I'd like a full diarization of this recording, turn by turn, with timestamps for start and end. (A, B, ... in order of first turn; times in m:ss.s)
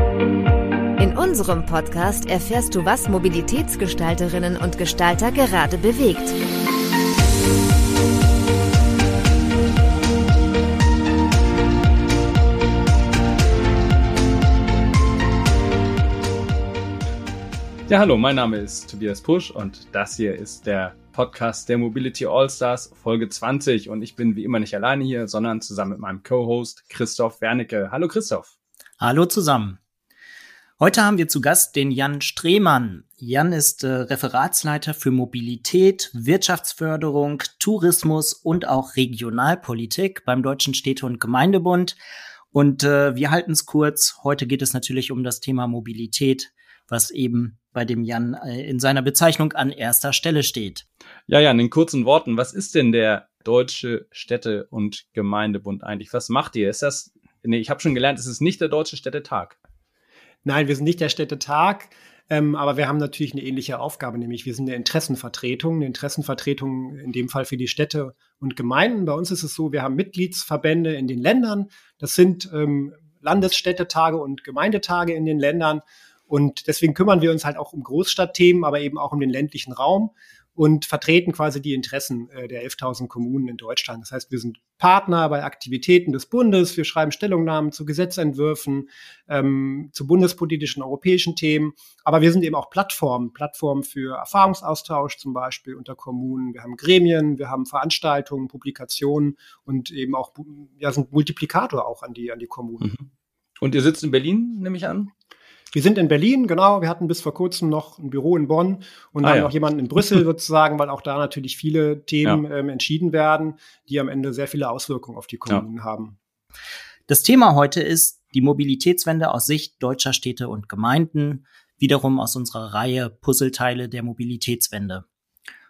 0:01.0-0:06.4 A
0:17.9-0:28.5 B
0:29.0-0:29.8 C
0:30.8-0:42.0 C
0:42.5-0:50.8 C
0:51.3-0:59.6 B
1:00.4-1:42.9 D
1:43.6-1:45.1 B
1:45.7-1:56.2 D
1:49.2-1:49.5 B
1:57.1-2:05.0 C